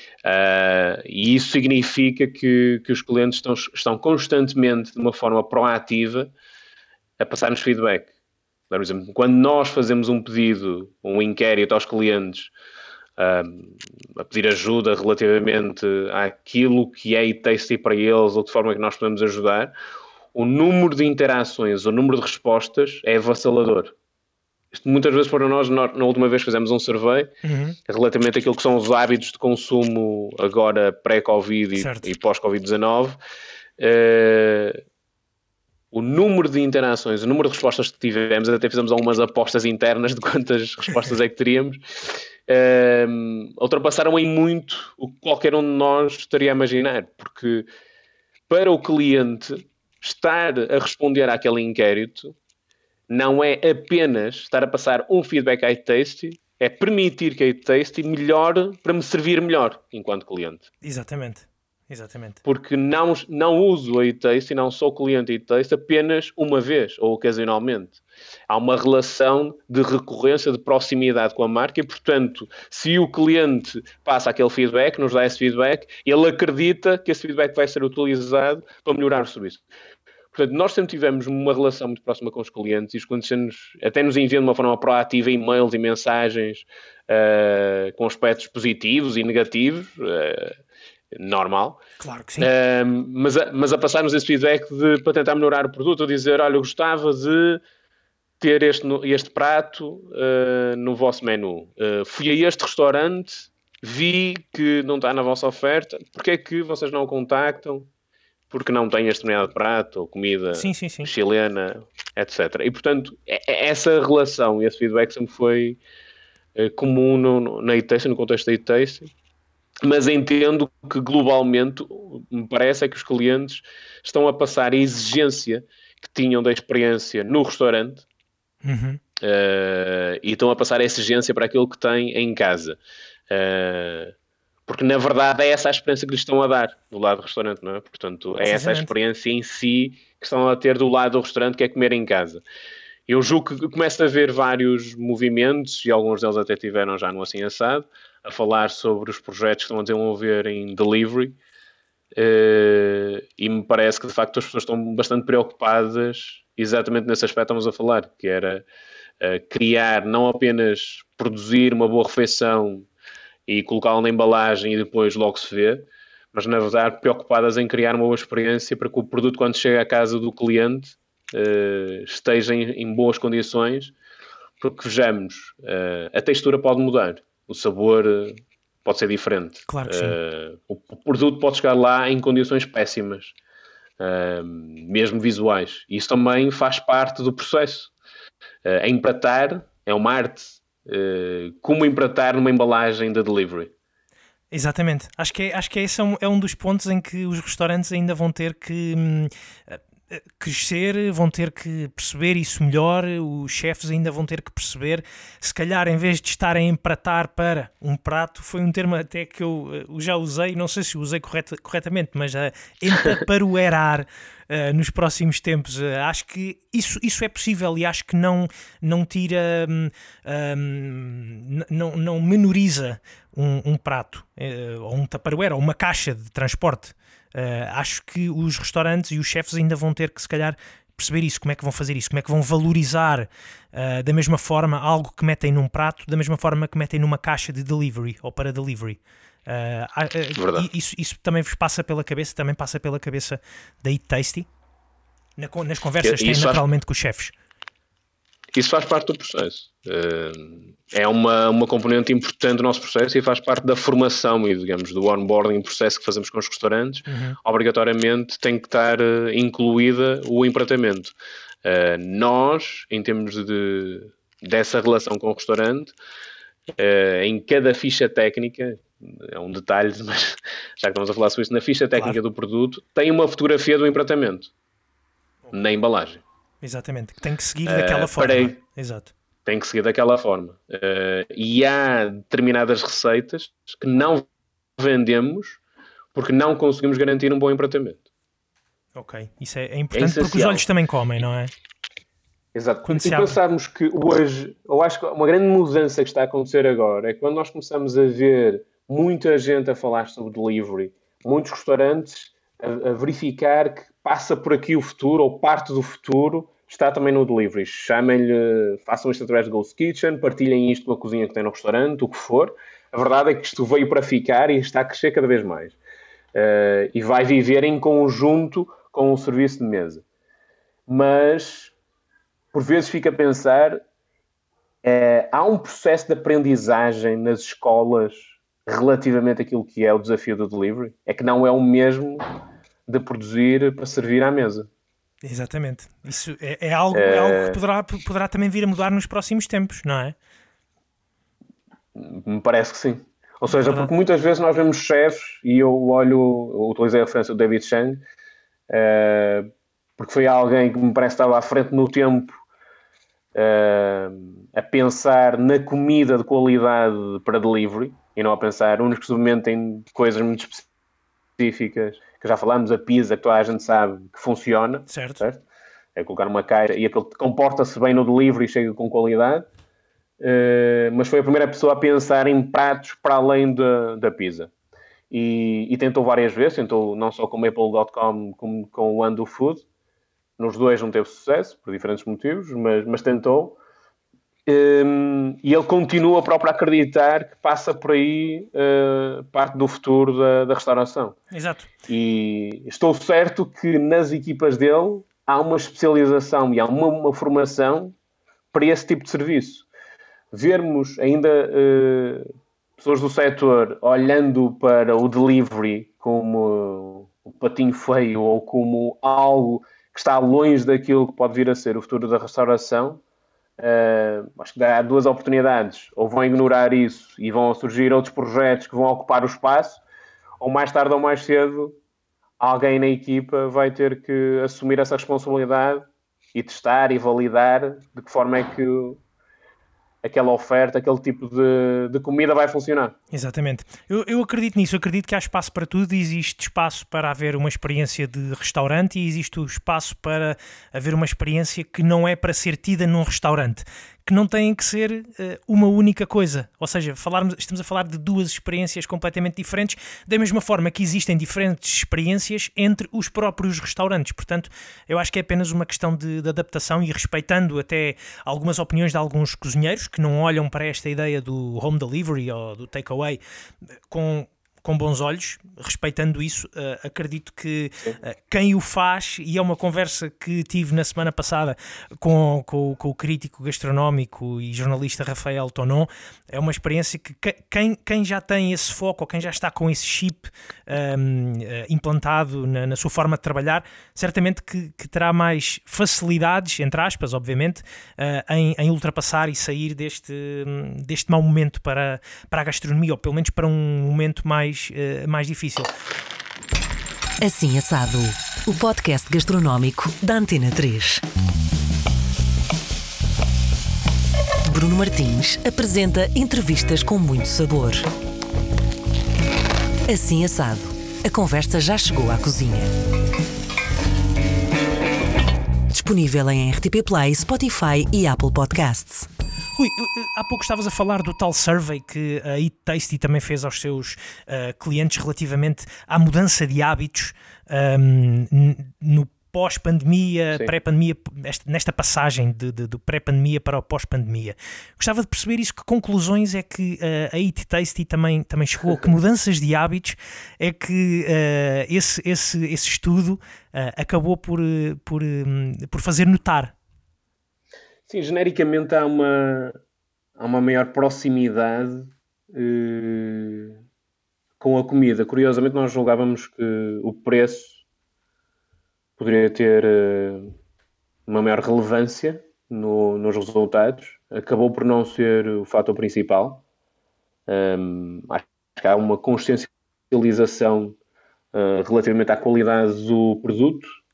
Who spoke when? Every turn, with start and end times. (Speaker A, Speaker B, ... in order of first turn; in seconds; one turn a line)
Speaker A: 0.2-6.3
Speaker A: 7.2-8.1
Speaker A: 8.7-12.5
Speaker A: 13.2-19.7
Speaker A: 20.3-23.9
Speaker A: 24.7-27.3
Speaker B: 27.4-27.8
Speaker A: 27.9-33.2
Speaker B: 31.8-32.1
Speaker A: 33.8-34.8
Speaker A: 35.9-47.7
Speaker A: 48.5-52.4
Speaker A: 53.1-60.7
Speaker B: 60.8-62.4
Speaker A: 62.5-79.6
Speaker A: 80.3-90.6
Speaker A: 91.1-91.8
Speaker B: 92.0-92.5
Speaker A: 92.4-97.6
Speaker A: 98.4-107.9
Speaker A: 108.5-115.8
Speaker B: 110.5-111.1
Speaker A: 116.5-119.1
Speaker A: 119.8-128.1
Speaker B: 128.6-129.0
Speaker A: 129.2-132.8
Speaker A: 133.3-134.2
Speaker A: 134.7-142.4
Speaker B: 138.5-138.9
Speaker A: 143.1-151.4
Speaker A: 152.1-158.7
Speaker A: 159.2-162.9
Speaker A: 163.5-173.9
Speaker A: 174.6-183.3
Speaker B: 179.7-180.2
Speaker A: 184.0-187.9
Speaker A: 188.6-193.7
Speaker B: 194.5-244.5
Speaker A: 240.4-240.7
Speaker B: 245.4-247.3
Speaker A: 246.0-246.6
Speaker A: 248.6-265.9
Speaker B: 257.1-257.4
Speaker A: 266.8-274.5
Speaker A: 275.5-276.2
Speaker B: 276.6-279.1
Speaker A: 277.7-278.6
Speaker A: 279.4-284.3
Speaker A: 284.8-285.6
Speaker A: 286.1-288.1
Speaker B: 288.9-291.5
Speaker A: 289.9-290.7
Speaker A: 292.5-315.8
Speaker B: 292.9-293.4
Speaker A: 316.3-320.0
Speaker A: 320.9-321.7
Speaker A: 322.5-323.8
Speaker A: 324.8-332.3
Speaker A: 332.9-334.7
Speaker B: 335.2-340.1
Speaker A: 336.9-337.6
Speaker A: 341.9-348.0
Speaker B: 343.5-343.9
Speaker A: 348.7-349.5
Speaker A: 350.0-352.3
Speaker A: 353.3-360.7
Speaker A: 361.4-365.4
Speaker B: 364.9-365.2
Speaker A: 366.0-369.5
Speaker A: 370.2-374.5
Speaker A: 375.1-379.7
Speaker A: 380.4-383.6
Speaker A: 384.5-391.2
Speaker B: 391.3-391.7
Speaker A: 391.9-397.9
Speaker A: 398.5-399.7
Speaker A: 400.3-413.0
Speaker A: 413.6-419.8
Speaker A: 420.4-421.8
Speaker A: 422.4-429.0
Speaker A: 430.0-433.0
Speaker B: 433.1-463.2
Speaker B: 463.9-495.7
Speaker C: 497.2-501.0
Speaker C: 504.5-507.9
Speaker C: 509.9-512.7
Speaker C: 515.7-519.1
Speaker B: 519.6-546.5
Speaker A: 547.9-549.5
Speaker A: 550.2-553.6
Speaker A: 554.4-557.6
Speaker A: 559.0-560.3
Speaker A: 561.1-566.4
Speaker A: 567.3-570.8
Speaker A: 571.3-573.7